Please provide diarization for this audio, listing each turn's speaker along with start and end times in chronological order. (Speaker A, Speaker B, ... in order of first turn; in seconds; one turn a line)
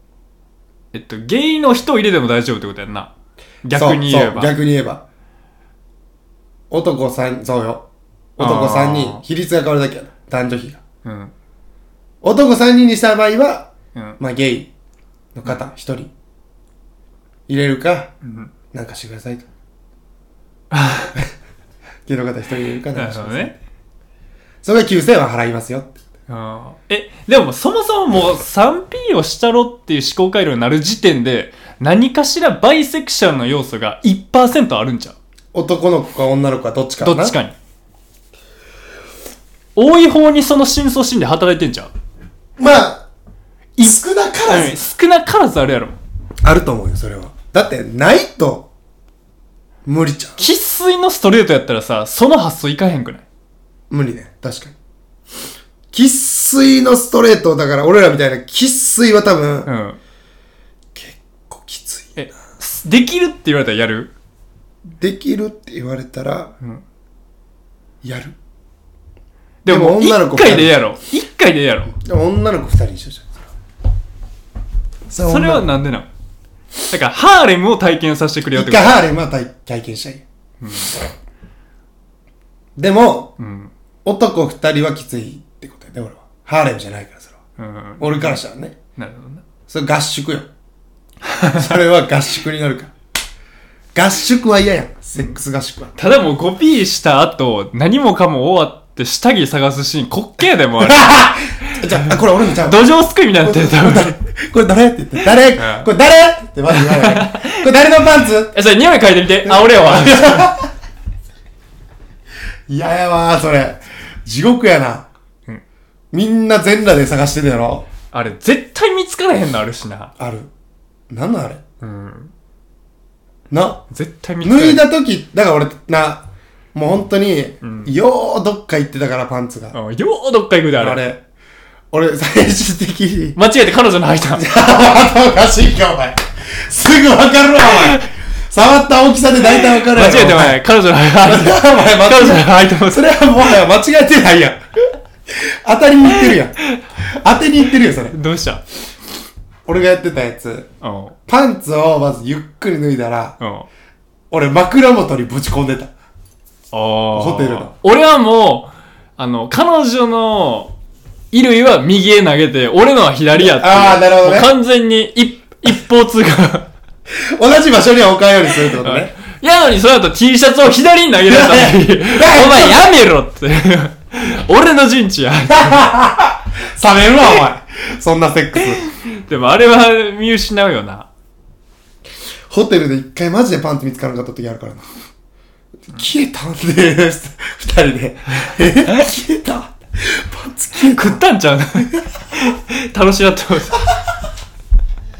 Speaker A: 0.9-3.1
Speaker A: 3.6-4.5
Speaker B: 3.7-5.0
Speaker B: 6.7-7.8
Speaker B: 8.4-10.8
Speaker A: 8.4-9.2
Speaker A: 11.0-11.3
Speaker B: 12.2-14.7
Speaker B: 15.3-16.1
Speaker B: 17.5-18.1
Speaker A: 18.2-18.5
Speaker B: 18.7-19.4
Speaker A: 20.7-21.1
Speaker B: 22.1-23.6
Speaker A: 22.9-23.5
Speaker B: 24.6-25.9
Speaker A: 26.3-35.1
Speaker B: 35.5-37.4
Speaker A: 37.0-37.5
Speaker A: 39.8-41.9
Speaker B: 42.6-43.0
Speaker A: 43.8-46.0
Speaker B: 43.8-44.8
Speaker B: 46.4-48.7
Speaker B: 49.8-50.4
Speaker A: 50.4-53.2
Speaker B: 53.9-54.8
Speaker B: 55.9-59.7
Speaker A: 59.6-60.0
Speaker B: 60.9-62.2
Speaker A: 62.1-64.1
Speaker B: 64.9-66.5
Speaker B: 68.0-68.3
Speaker A: 69.6-71.9
Speaker B: 69.7-70.8
Speaker B: 71.9-73.5
Speaker B: 75.1-75.7
Speaker A: 75.2-76.1
Speaker A: 76.9-79.0
Speaker B: 78.5-80.2
Speaker A: 80.6-80.9
Speaker B: 82.8-83.3
Speaker A: 83.4-83.7
Speaker B: 84.0-87.4
Speaker A: 87.6-88.4
Speaker B: 88.0-88.8
Speaker A: 89.0-89.4
Speaker B: 89.7-90.5
Speaker A: 91.2-91.8
Speaker B: 91.5-92.9
Speaker B: 93.9-96.0
Speaker A: 96.0-104.2
Speaker B: 100.8-102.9
Speaker B: 103.4-108.5
Speaker A: 105.6-105.9
Speaker A: 106.7-107.7
Speaker A: 108.5-110.5
Speaker B: 109.4-110.7
Speaker B: 112.7-115.1
Speaker B: 116.1-117.9
Speaker A: 118.1-120.1
Speaker B: 120.2-120.5
Speaker B: 121.1-121.6
Speaker A: 121.8-122.3
Speaker B: 123.5-123.8
Speaker A: 123.9-124.8
Speaker B: 124.4-129.8
Speaker A: 127.6-127.9
Speaker A: 129.7-131.0
Speaker B: 130.8-131.2
Speaker B: 131.9-133.4
Speaker A: 133.3-134.5
Speaker B: 134.3-140.6
Speaker A: 137.6-138.1
Speaker A: 139.5-143.1
Speaker B: 141.2-148.2
Speaker A: 146.1-146.8
Speaker A: 148.1-148.6
Speaker B: 149.7-150.7
Speaker A: 150.8-151.2
Speaker B: 151.3-153.4
Speaker A: 153.4-153.7
Speaker B: 154.3-155.9
Speaker A: 156.7-160.7
Speaker B: 157.1-157.7
Speaker A: 161.3-166.7
Speaker B: 163.4-164.5
Speaker B: 167.2-169.1
Speaker A: 168.8-175.9
Speaker B: 171.3-172.9
Speaker B: 175.5-178.8
Speaker A: 178.6-181.1
Speaker B: 182.5-184.8
Speaker B: 185.9-191.2
Speaker A: 190.7-193.9